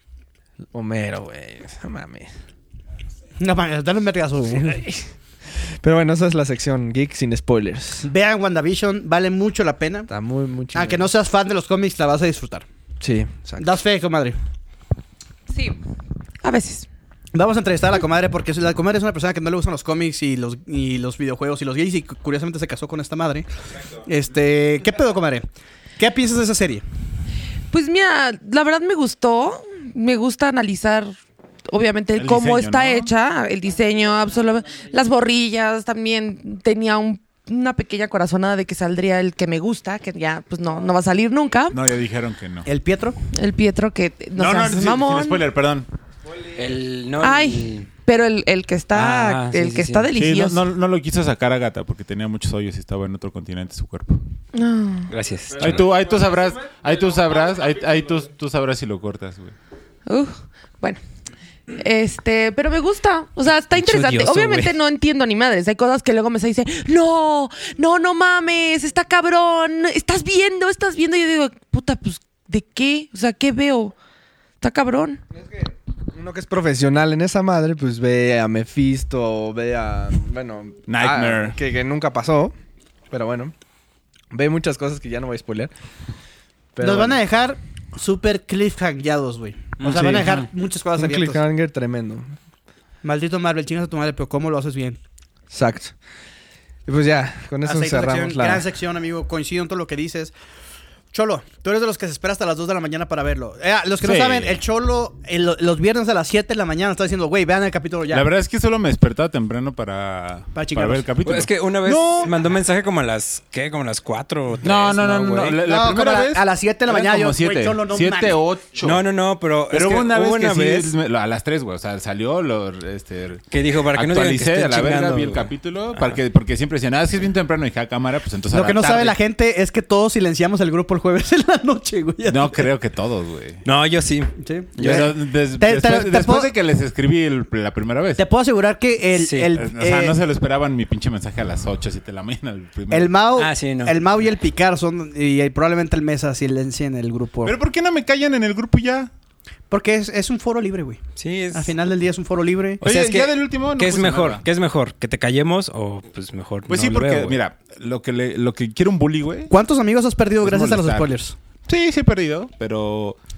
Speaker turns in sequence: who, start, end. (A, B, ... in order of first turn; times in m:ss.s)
0:00.7-0:02.3 A
0:03.4-0:04.8 B
0:04.5-0:05.0 A
0:05.6-0:08.1 A
0:08.0-0:10.1 B
0:10.1-0:11.1 A
0:10.7-0:12.6 B
0:13.0-0:13.7 A
0:13.6-0:14.4 B
0:15.5-0:15.8 C
0:16.4-0:16.9 C
0:17.3-0:23.5 B
0:24.0-0:26.8 B
0:27.7-0:31.1 C
0:31.7-0:41.8 C
0:32.2-0:33.1 D
0:41.7-0:42.7 D
0:42.6-0:43.2 B
0:43.3-0:45.4 C
0:44.4-0:45.9 D
0:46.5-0:47.9 E
0:47.2-0:50.6 C
0:48.9-0:50.1 E
0:50.1-0:54.2 D
0:54.5-0:55.1 C
0:55.1-0:55.9 E
0:55.6-0:59.5 D
1:00.1-1:01.0 C
1:01.7-1:13.9 C
1:03.7-1:04.7 E
1:14.6-1:15.2 C
1:15.3-1:22.5 A
1:20.9-1:21.6 D
1:23.1-1:23.5 A
1:24.3-1:25.7 A
1:26.7-1:27.2 A
1:26.8-1:31.4 B
1:29.8-1:30.2 D
1:29.9-1:30.2 A
1:30.9-1:32.3 A
1:33.0-1:35.0 B
1:35.5-1:35.9 A
1:36.8-1:38.6 A
1:37.6-1:40.3 B
1:41.1-1:48.3 B
1:44.0-1:44.6 D
1:48.1-1:52.3 D
1:50.5-1:51.1 B
1:51.2-1:55.6 E
1:54.6-1:59.0 D
1:55.6-1:58.4 B
1:58.8-2:00.9 E
1:59.7-2:09.2 D
2:03.5-2:06.2 E
2:08.5-2:12.7 B
2:12.3-2:13.6 D
2:13.6-2:15.0 E
2:14.4-2:16.5 B
2:14.8-2:18.2 D
2:18.2-2:20.2 B
2:19.1-2:19.5 E
2:19.5-2:23.1 D
2:22.9-2:27.6 B
2:23.4-2:24.0 E
2:27.4-2:29.1 D
2:29.7-2:32.8 B
2:31.2-2:31.7 E
2:32.8-2:37.4 E
2:32.8-2:34.4 D
2:36.7-2:39.5 D
2:39.5-2:41.3 B
2:40.4-2:41.1 D
2:41.6-2:43.2 D